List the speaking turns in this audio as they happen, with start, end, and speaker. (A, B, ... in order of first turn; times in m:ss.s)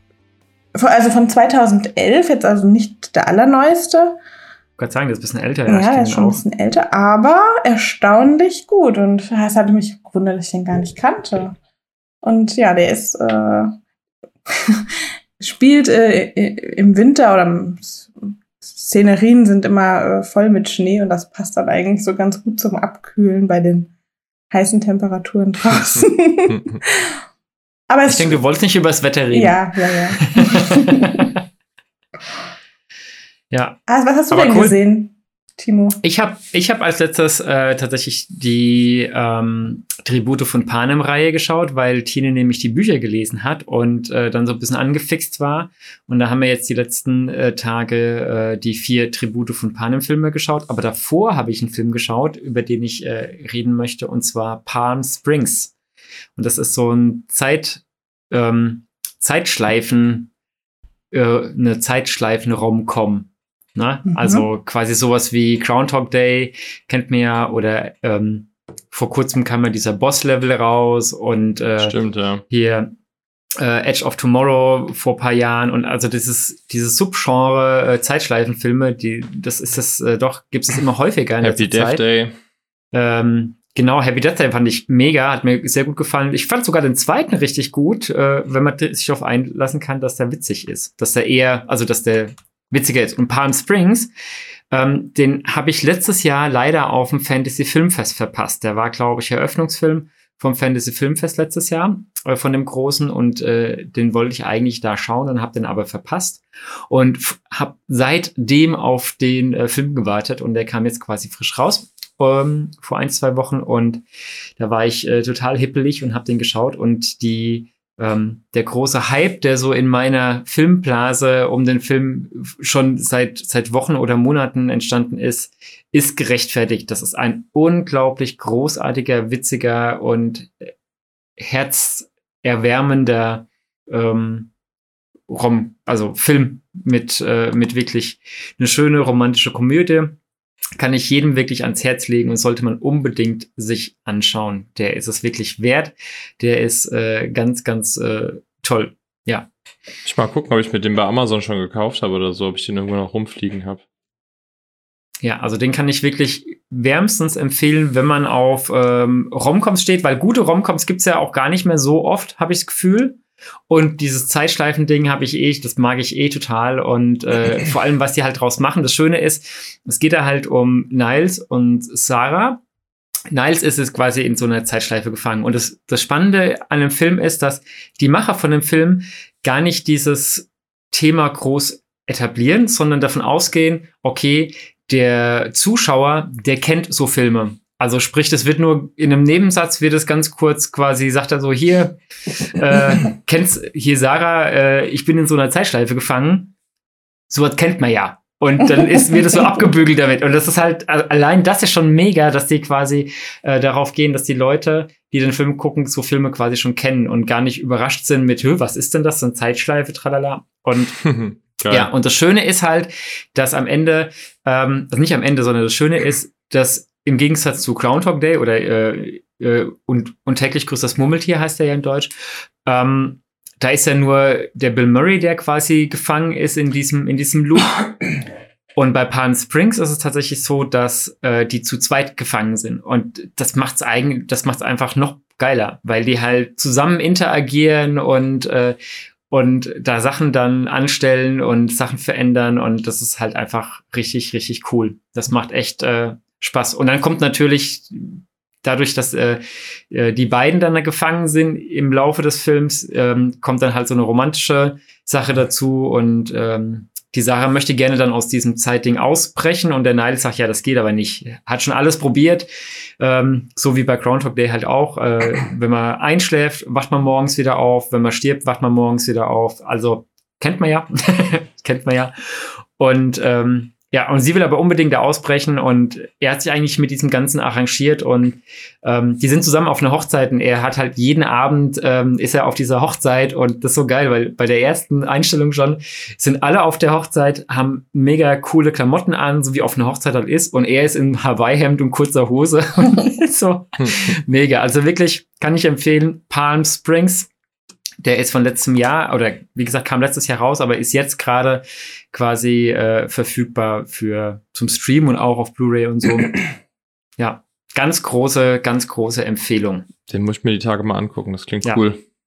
0:00.8-0:04.2 A
0:04.8-0:06.4 B
0:05.7-0:11.6 A
0:12.2-0:13.7 A
0:14.6-0:14.8 A
0:15.4-0:23.9 A
0:24.5-0:27.1 A
0:25.8-0:26.8 C
0:27.9-0:28.4 A
0:28.0-0:31.4 B
0:29.3-0:31.3 A
0:33.5-0:33.8 B
0:33.9-0:36.0 A
0:34.3-0:34.8 B
0:36.0-0:55.7 B
0:56.4-1:00.3 B
1:01.1-1:11.9 B
1:04.1-1:04.4 A
1:11.8-1:12.4 C
1:12.5-1:12.9 B
1:13.6-1:22.0 B
1:21.4-1:22.3 C
1:22.9-1:34.1 B
1:34.7-1:54.0 B
1:54.6-2:10.7 B
2:11.4-2:14.5 B
2:15.3-2:20.2 B
2:20.8-2:29.5 B
2:30.0-2:33.8 C
2:35.2-2:52.6 B
2:53.3-3:16.5 B
3:17.3-3:31.0 B
3:31.0-3:31.9 C
3:31.7-3:42.1 B
3:42.6-3:47.7 B
3:48.8-3:58.8 B
3:59.3-4:22.5 B
4:23.0-4:57.3 B
4:53.8-4:54.1 C
4:58.0-5:06.4 B
5:07.2-5:09.9 B
5:10.1-5:12.0 C